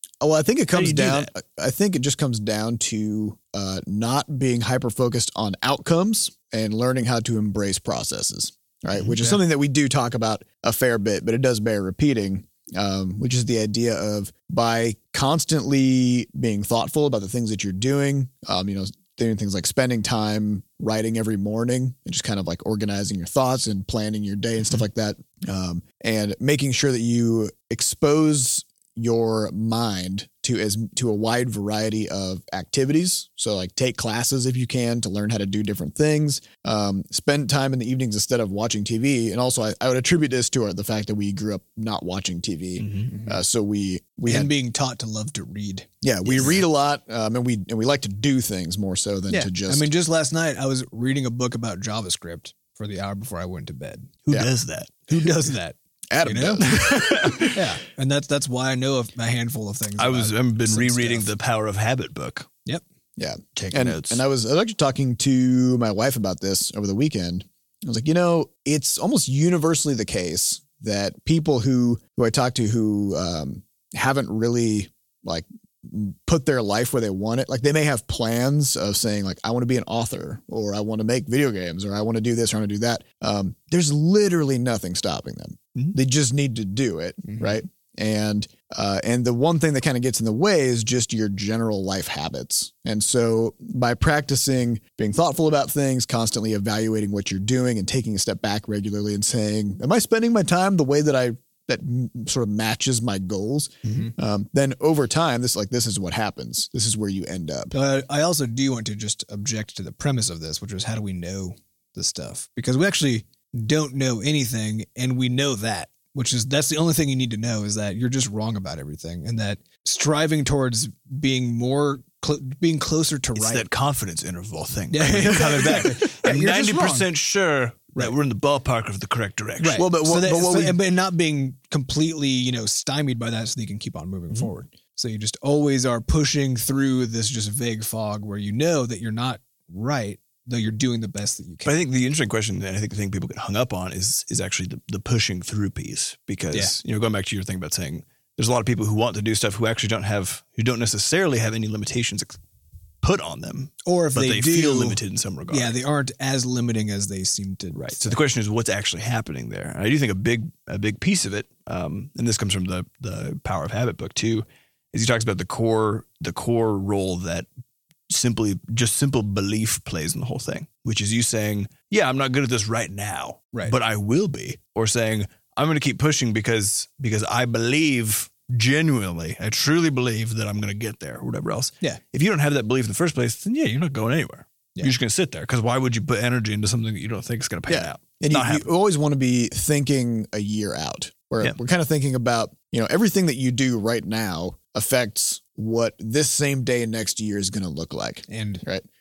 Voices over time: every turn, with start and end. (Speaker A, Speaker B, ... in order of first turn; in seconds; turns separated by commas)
Speaker A: 0.2-44.5, Speaker B: 0.7-1.3, Speaker B: 42.8-43.1, Speaker C: 43.1-43.4, Speaker C: 44.2-46.6, Speaker A: 46.0-49.9, Speaker C: 49.3-54.2, Speaker B: 54.3-55.1, Speaker C: 55.1-61.3, Speaker A: 56.1-56.7, Speaker B: 56.6-57.7, Speaker B: 60.0-62.5, Speaker A: 63.2-107.7, Speaker B: 63.5-64.2, Speaker C: 107.7-123.7, Speaker B: 123.4-129.8, Speaker C: 124.9-127.1, Speaker C: 129.6-141.8, Speaker A: 129.8-130.8, Speaker B: 141.6-152.4, Speaker C: 146.5-146.8, Speaker B: 153.0-155.8, Speaker C: 153.8-158.2, Speaker B: 157.7-167.5, Speaker B: 168.1-188.7, Speaker A: 187.7-198.8, Speaker C: 198.3-198.6